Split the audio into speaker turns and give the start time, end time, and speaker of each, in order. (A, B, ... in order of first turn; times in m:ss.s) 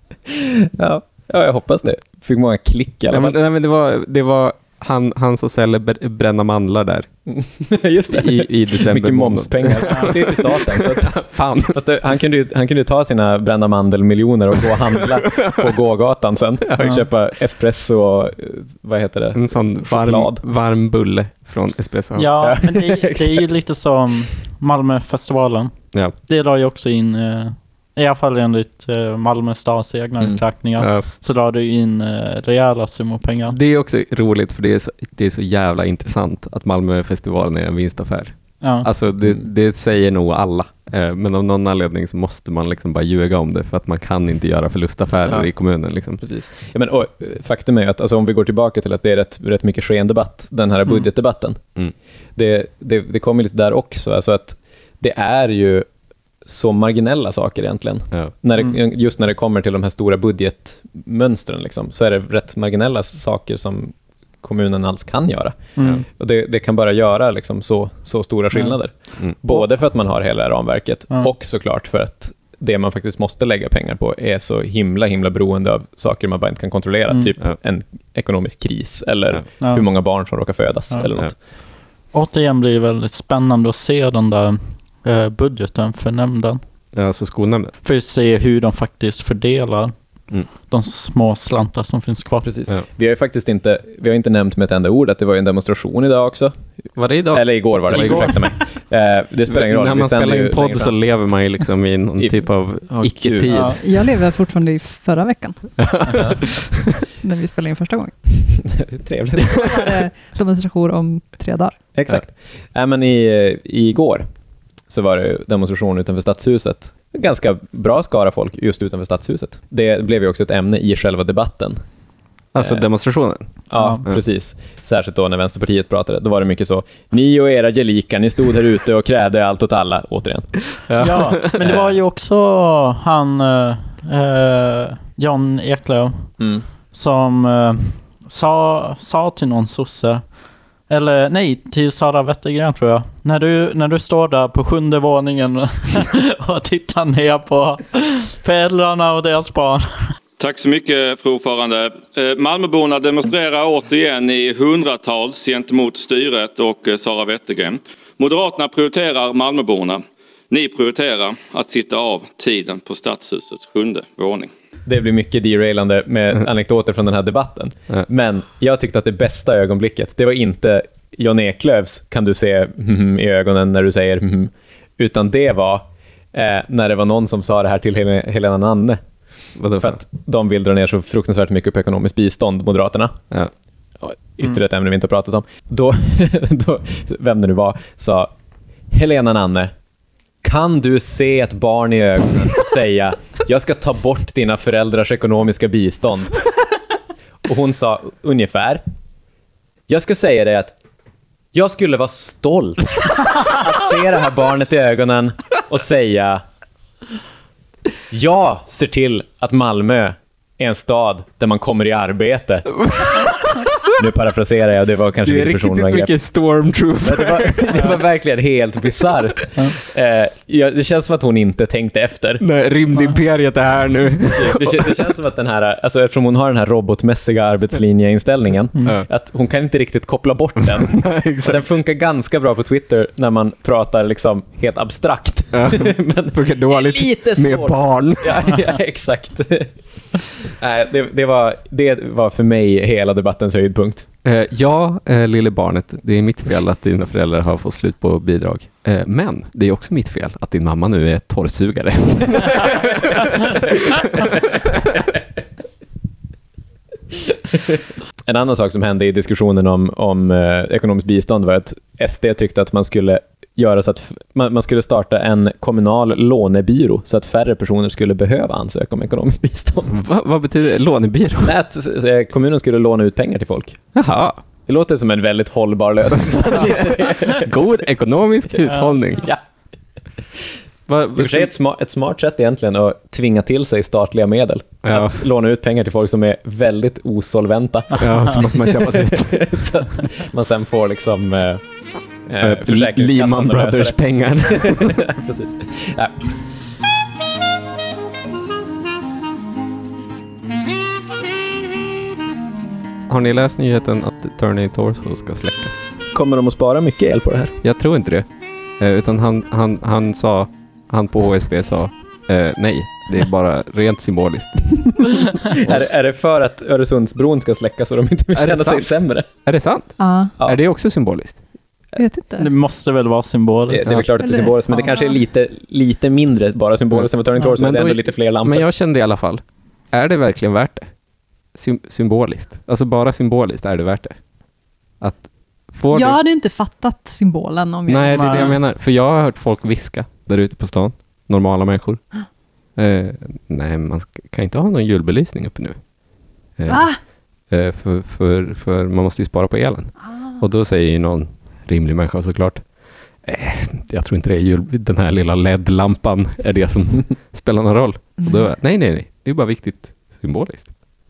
0:00.3-0:03.4 A
0:03.1-0:07.1 B
0:07.2-0:20.4 A
0:08.1-0:11.8 B
0:15.4-0:15.7 B
0:16.6-0:17.0 B
0:19.3-0:22.4 B
0:22.2-0:33.6 C
0:22.4-0:23.4 A
0:30.8-0:31.1 B
0:33.5-0:46.2 B
0:38.6-0:38.9 C
0:46.2-0:51.6 A
0:52.4-0:55.8 A
0:56.4-1:21.3 A
1:05.8-1:06.0 C
1:08.5-1:08.8 C
1:19.6-1:19.9 C
1:20.9-1:21.4 C
1:22.1-1:26.6 C
1:26.9-1:27.7 B
1:27.8-1:32.5 C
1:32.4-1:36.5 A
1:37.0-1:38.5 B
1:37.3-1:41.0 A
1:37.9-1:38.5 C
1:39.5-1:44.2 B
1:42.2-1:43.5 A
1:43.5-1:43.8 C
1:43.8-1:45.8 D
1:45.8-1:46.3 B
1:47.2-1:48.4 D
1:48.6-1:49.6 A
1:49.6-1:51.8 D
1:51.9-1:54.2 A
1:54.9-2:01.8 A
2:02.5-2:04.2 B
2:02.6-2:02.9 A
2:03.6-2:10.7 A
2:03.7-2:04.0 C
2:10.9-2:11.7 B
2:11.0-2:30.1 C
2:11.6-2:11.9 A
2:16.4-2:16.6 A
2:30.4-2:44.5 E
2:44.8-2:59.0 A
2:59.6-3:00.0 B
2:59.7-3:03.2 A
3:04.0-3:08.3 A
3:08.9-3:09.7 A
3:10.4-3:16.4 A
3:17.4-3:18.8 A
3:19.9-3:20.8 A
3:21.5-3:26.4 A
3:28.1-3:32.7 A
3:32.9-3:33.6 B
3:33.9-3:36.1 A
3:35.2-3:37.9 B
3:37.0-3:42.4 A
3:42.4-3:44.9 B
3:44.3-3:59.7 A
3:50.8-3:51.8 B
3:55.5-3:58.5 B
4:00.5-4:04.1 A
4:04.2-4:13.6 B
4:17.5-4:29.9 A
4:29.9-4:31.5 B
4:31.4-4:33.8 A
4:33.9-4:34.4 B
4:34.6-4:37.5 A
4:36.2-4:39.3 B
4:38.6-4:38.9 C
4:40.9-4:41.5 B
4:41.2-4:56.2 A
4:44.8-4:45.2 B
4:48.0-4:49.8 B
4:52.4-4:55.0 B
5:03.1-5:05.8 B
5:06.1-5:07.6 A
5:07.6-5:15.8 B
5:15.5-5:19.2 A
5:18.3-5:21.4 B
5:20.0-5:20.3 D
5:22.0-5:22.5 D
5:22.4-5:23.9 C
5:23.7-5:28.6 A
5:24.2-5:25.2 D
5:26.9-5:36.2 B
5:35.9-5:38.5 D
5:37.9-6:00.7 B
5:38.1-5:38.6 C
5:46.7-5:47.0 D
5:50.0-5:50.3 D
5:58.2-5:58.5 D